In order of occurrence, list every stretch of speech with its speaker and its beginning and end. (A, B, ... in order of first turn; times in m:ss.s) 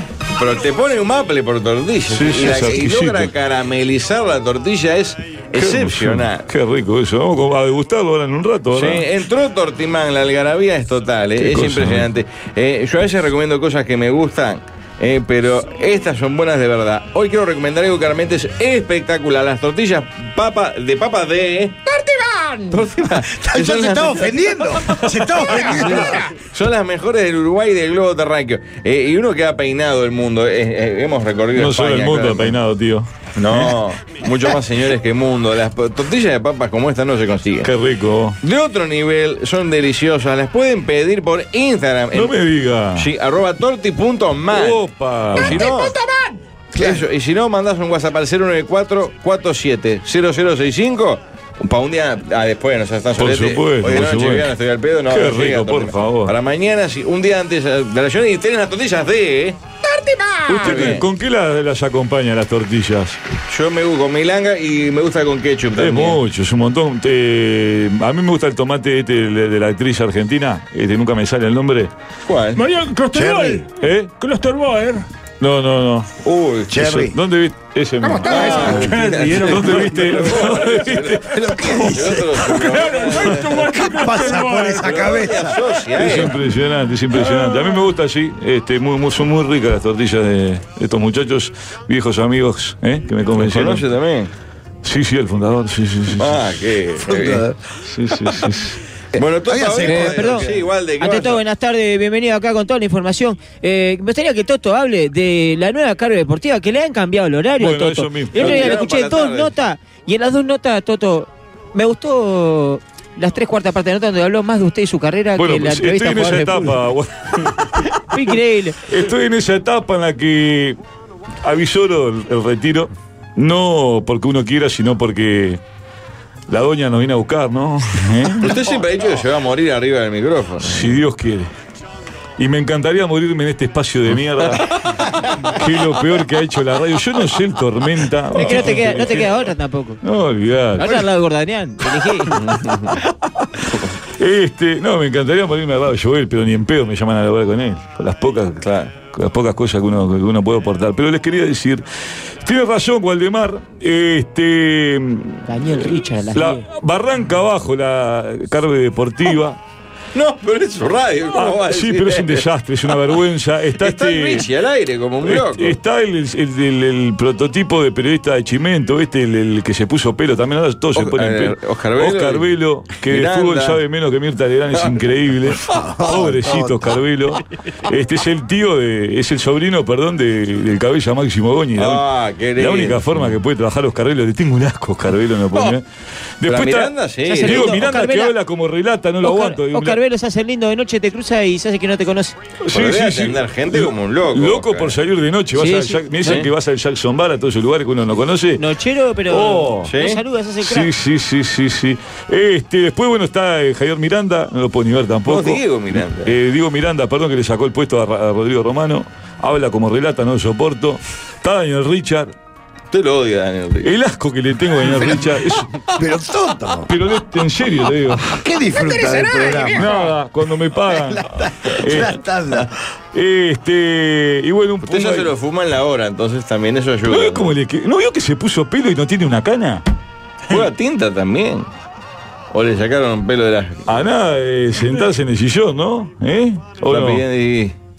0:00.4-0:06.5 A
0:02.1-0:03.3 B
0:05.6-0:09.1 B
0:08.7-0:21.8 A
0:11.4-0:12.1 B
0:21.8-0:22.8 C
0:22.7-0:32.6 A
0:23.2-0:26.2 D
0:25.6-0:26.3 C
0:31.5-0:33.7 B
0:33.4-0:37.7 A
0:37.6-0:38.4 B
0:38.4-0:42.4 A
0:42.1-0:43.1 B
0:42.9-0:45.9 A
0:44.5-0:45.7 B
0:45.5-0:46.4 C
0:46.7-0:59.6 A
0:53.2-0:54.5 B
0:55.1-0:56.3 B
0:59.8-1:00.7 C
1:00.5-1:03.2 B
1:00.6-1:01.0 A
1:03.5-1:06.2 A
1:05.8-1:11.9 B
1:12.3-1:12.6 A
1:12.6-1:15.0 E
1:13.1-1:13.6 D
1:13.8-1:14.1 B
1:15.4-1:16.1 B
1:16.2-1:16.8 A
1:16.7-1:17.2 D
1:16.7-1:22.0 B
1:18.0-1:18.8 C
1:18.2-1:23.6 A
1:21.5-1:22.2 D
1:22.5-1:25.2 E
1:23.7-1:25.6 D
1:24.7-1:26.4 A
1:25.9-1:33.8 B
1:27.2-1:27.8 E
1:33.3-1:34.3 A
1:34.8-1:36.5 B
1:36.1-1:37.4 A
1:37.0-1:37.5 D
1:37.9-1:38.8 B
1:39.2-1:40.5 D
1:39.2-1:41.4 A
1:39.8-1:40.5 F
1:41.0-1:56.7 F
1:47.6-1:48.7 B
1:48.3-1:49.5 A
1:55.4-1:57.8 B
1:58.1-1:58.8 F
1:58.9-2:00.8 B
2:01.4-2:05.6 B
2:06.5-2:08.6 B
2:08.4-2:11.0 A
2:10.6-2:11.5 B
2:12.4-2:14.7 B
2:15.4-2:19.3 B
2:18.3-2:20.0 F
2:18.4-2:19.1 A
2:20.0-2:21.1 B
2:20.8-2:22.4 F
2:22.3-2:22.9 A
2:24.2-2:31.8 B
2:28.6-2:28.9 A
2:32.4-2:39.6 B
2:35.4-2:36.6 F
2:40.1-2:42.9 A
2:41.3-2:44.5 B
2:43.8-2:45.8 A
2:45.2-3:02.0 B
2:50.9-2:53.8 A
2:54.7-2:55.1 A
2:55.7-2:57.0 D
3:01.7-3:03.4 A
3:02.6-3:05.8 B
3:06.4-3:10.0 B
3:06.4-3:07.9 A
3:07.3-3:08.3 F
3:09.2-3:12.4 F
3:12.6-3:18.6 B
3:12.7-3:15.0 A
3:15.5-3:16.4 F
3:16.2-3:16.5 A
3:18.6-3:20.9 F
3:19.3-3:19.9 B
3:19.8-3:20.2 A
3:20.6-3:32.3 B
3:25.2-3:26.4 A
3:32.9-3:33.9 A
3:33.8-3:35.7 B
3:36.0-3:36.9 D
3:36.9-3:38.4 B
3:38.3-3:40.0 D
3:38.7-3:40.1 C
3:39.8-3:42.2 B
3:41.0-3:42.7 D
3:43.1-3:45.3 B
3:44.8-3:47.5 A
3:47.1-3:49.8 B
3:50.5-3:51.7 A
3:52.5-3:53.9 A
3:53.9-3:57.2 B
3:56.8-3:57.7 A